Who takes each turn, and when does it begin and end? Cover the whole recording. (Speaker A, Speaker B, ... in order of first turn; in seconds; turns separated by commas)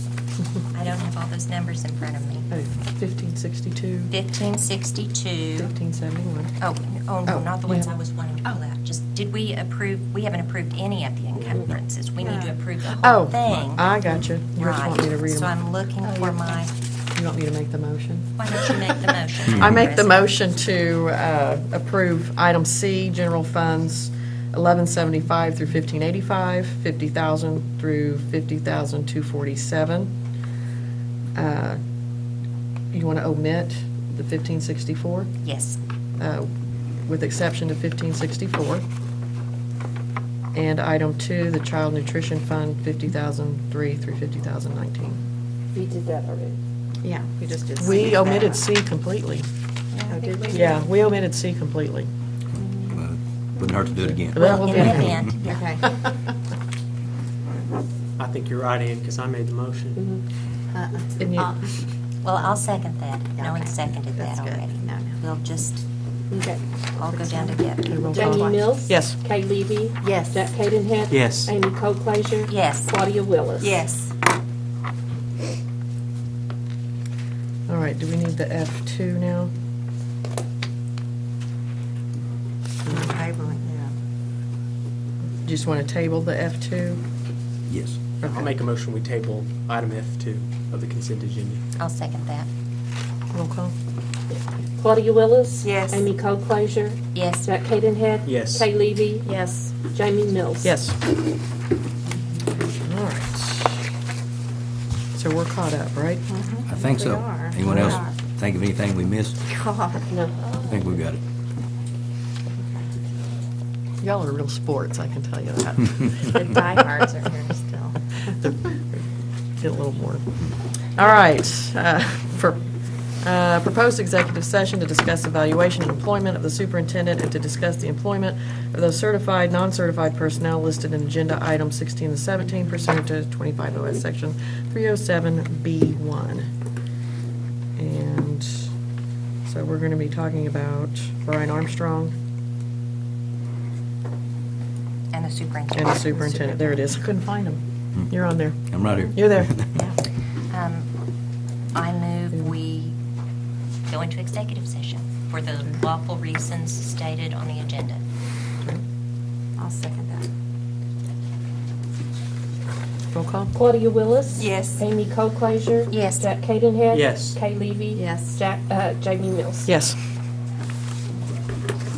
Speaker A: 0.7-2.5, Speaker B: 2.5-4.1, Speaker A: 4.1-5.7, Speaker B: 5.6-6.5, Speaker A: 6.6-13.8, Speaker B: 7.3-7.9, Speaker C: 11.3-11.7, Speaker D: 12.2-12.5, Speaker B: 13.0-15.5, Speaker A: 14.6-16.7, Speaker D: 16.1-16.3, Speaker B: 17.1-18.6, Speaker A: 18.4-20.4, Speaker B: 19.5-30.1, Speaker B: 31.3-31.8, Speaker B: 32.9-35.3, Speaker A: 35.4-35.8, Speaker B: 36.2-36.5, Speaker B: 37.0-38.8, Speaker B: 40.5-45.2, Speaker E: 45.7-46.6, Speaker D: 47.0-48.6, Speaker B: 47.8-49.5, Speaker A: 49.9-50.8, Speaker D: 50.1-50.7, Speaker B: 50.5-52.1, Speaker D: 52.6-52.9, Speaker F: 52.9-55.3, Speaker B: 54.0-55.2, Speaker A: 54.4-55.7, Speaker D: 54.6-55.9, Speaker C: 58.2-60.0, Speaker E: 60.0-60.2, Speaker D: 60.7-61.6, Speaker B: 61.2-61.5, Speaker A: 62.2-65.8, Speaker D: 63.4-65.2, Speaker E: 66.3-66.6, Speaker A: 67.0-68.2, Speaker D: 67.0-68.8, Speaker B: 67.9-69.2, Speaker E: 68.1-73.8, Speaker D: 70.0-70.5, Speaker C: 71.1-71.5, Speaker A: 72.5-73.0, Speaker D: 73.6-74.1, Speaker B: 77.7-79.5, Speaker B: 82.9-83.3, Speaker D: 82.9-83.9, Speaker B: 85.4-87.0, Speaker F: 87.7-88.0, Speaker C: 88.2-91.6, Speaker B: 88.2-88.5, Speaker A: 91.8-92.5, Speaker B: 93.3-93.7, Speaker E: 94.3-99.3, Speaker D: 95.6-96.1, Speaker A: 97.1-97.5, Speaker C: 98.3-98.7, Speaker D: 99.2-99.8, Speaker E: 99.8-100.7, Speaker B: 100.6-101.0, Speaker B: 102.8-103.8, Speaker B: 105.2-106.3, Speaker D: 106.3-108.1, Speaker F: 106.7-109.4, Speaker B: 107.6-108.0, Speaker D: 109.5-110.6, Speaker E: 110.1-110.4, Speaker F: 110.6-111.2, Speaker B: 114.0-116.5, Speaker D: 116.4-118.1, Speaker B: 118.4-119.0, Speaker B: 119.6-122.6, Speaker B: 123.2-136.5, Speaker B: 137.8-138.7, Speaker B: 139.4-142.1, Speaker A: 145.1-146.9, Speaker B: 145.7-149.6, Speaker F: 148.7-149.7, Speaker D: 149.7-150.0, Speaker A: 150.5-150.9, Speaker A: 151.8-153.0, Speaker A: 153.9-158.0, Speaker D: 159.6-160.3, Speaker B: 163.1-163.5, Speaker E: 163.5-169.7, Speaker D: 164.4-164.8, Speaker A: 165.9-166.3, Speaker C: 166.9-167.4, Speaker D: 167.9-168.4, Speaker B: 169.7-170.0